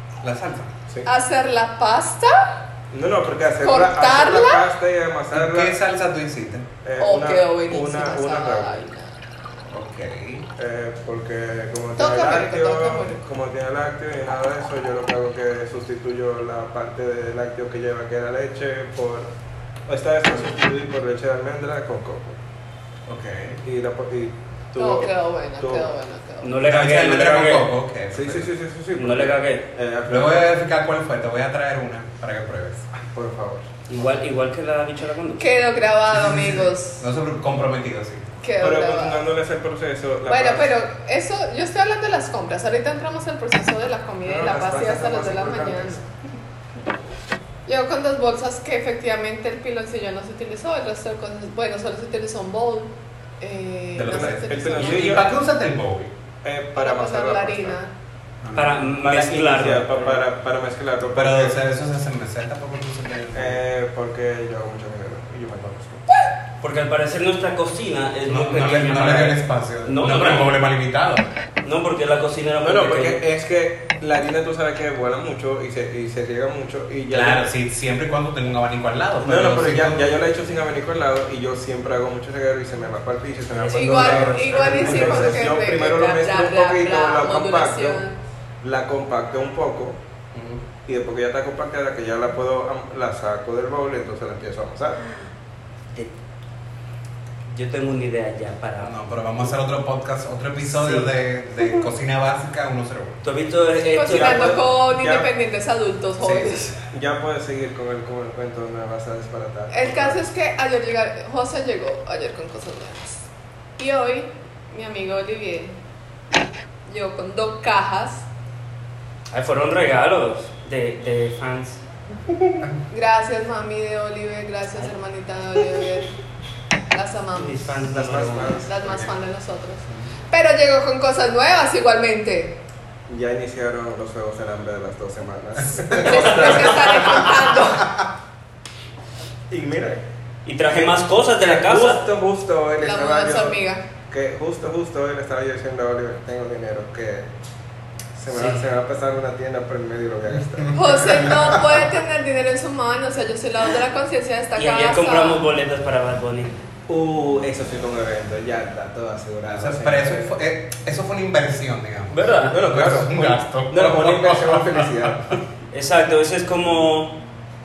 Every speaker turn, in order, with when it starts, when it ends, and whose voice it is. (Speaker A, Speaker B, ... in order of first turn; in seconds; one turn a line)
Speaker A: 0.2-0.7
Speaker B: 1.1-2.6
Speaker C: 2.9-5.7
Speaker B: 3.6-4.7
Speaker A: 5.3-6.7
Speaker C: 6.8-8.8
Speaker B: 7.0-9.6
Speaker A: 9.7-10.5
Speaker C: 10.5-19.3
Speaker B: 12.0-13.2
Speaker C: 19.9-22.4
Speaker A: 23.1-23.6
Speaker C: 23.6-25.9
Speaker B: 24.8-26.5
Speaker D: 26.4-27.7
Speaker A: 26.7-28.5
Speaker C: 28.1-30.4
Speaker D: 28.9-29.7
Speaker A: 30.1-32.9
Speaker C: 32.9-33.7
Speaker D: 33.9-35.5
Speaker B: 35.4-37.1
Speaker A: 36.1-38.3
Speaker B: 38.4-39.3
Speaker C: 38.6-40.7
Speaker B: 40.2-46.0
Speaker C: 44.2-46.1
Speaker B: 47.7-55.3
Speaker A: 53.9-56.1
Speaker C: 54.1-55.3
Speaker C: 56.4-57.8
Speaker B: 56.8-57.9
Speaker A: 58.4-58.8
Speaker D: 58.5-60.2
Speaker C: 58.9-61.6
Speaker A: 61.1-63.6
Speaker C: 63.3-66.0
Speaker D: 66.6-70.6
Speaker A: 68.2-71.3
Speaker D: 71.6-73.2
Speaker C: 72.6-77.4
Speaker A: 77.1-80.1
Speaker C: 79.2-88.0
Speaker D: 83.5-85.2
Speaker B: 83.8-88.2
Speaker A: 83.8-85.7
Speaker C: 88.6-90.0
Speaker A: 90.3-90.7
Speaker C: 90.8-95.0
Speaker D: 97.5-99.0
Speaker A: 98.8-103.2
Speaker D: 100.6-101.9
Speaker D: 103.2-104.6
Speaker B: 103.9-106.7
Speaker C: 104.1-105.3
Speaker A: 106.2-106.8
Speaker C: 106.9-110.3
Speaker B: 109.7-115.8
Speaker B: 116.9-118.3
Speaker D: 119.3-121.8
Speaker B: 122.9-126.1
Speaker B: 126.9-127.8
Speaker D: 127.3-128.6
Speaker C: 127.9-128.8
Speaker B: 128.6-132.6
Speaker A: 128.8-129.1
Speaker C: 133.1-137.2
Speaker A: 135.6-137.8
Speaker B: 136.0-137.9
Speaker D: 136.4-137.2
Speaker C: 139.5-140.0
Speaker D: 140.4-142.0
Speaker C: 140.7-143.6
Speaker B: 142.8-143.8
Speaker C: 144.1-147.3
Speaker C: 148.2-151.6
Speaker D: 148.3-148.7
Speaker A: 150.5-151.7
Speaker B: 150.7-155.4
Speaker D: 154.6-156.5
Speaker C: 156.9-160.3
Speaker A: 159.5-165.3
Speaker D: 162.1-162.6
Speaker C: 162.5-165.4
Speaker D: 165.7-167.2